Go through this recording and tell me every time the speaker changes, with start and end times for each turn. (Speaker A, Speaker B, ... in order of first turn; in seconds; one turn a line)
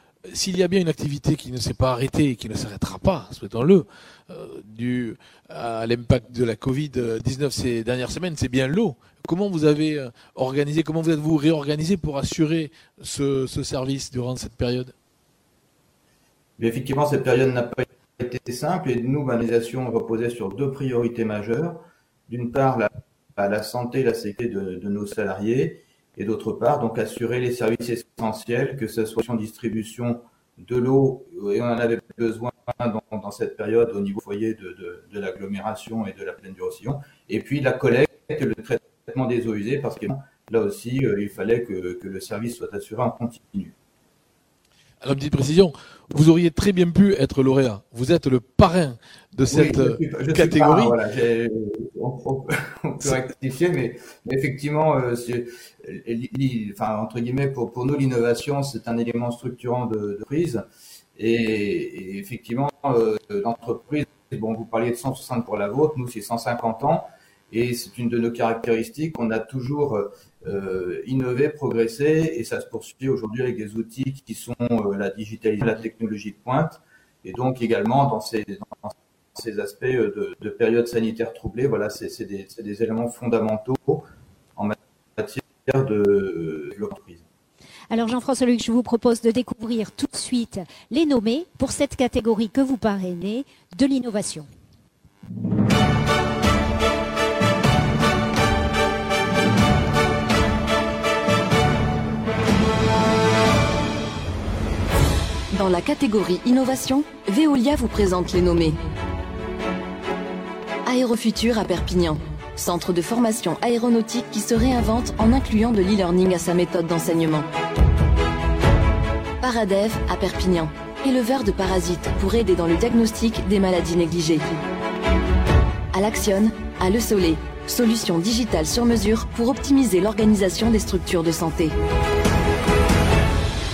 Speaker A: 0.3-14.9
Speaker B: 16.6-43.8
Speaker A: 45.0-51.0
Speaker B: 49.5-60.6
Speaker B: 61.2-87.3
Speaker C: 87.9-94.5
Speaker D: 105.5-108.8
Speaker D: 110.9-117.5
Speaker D: 119.4-124.5
Speaker D: 125.9-131.7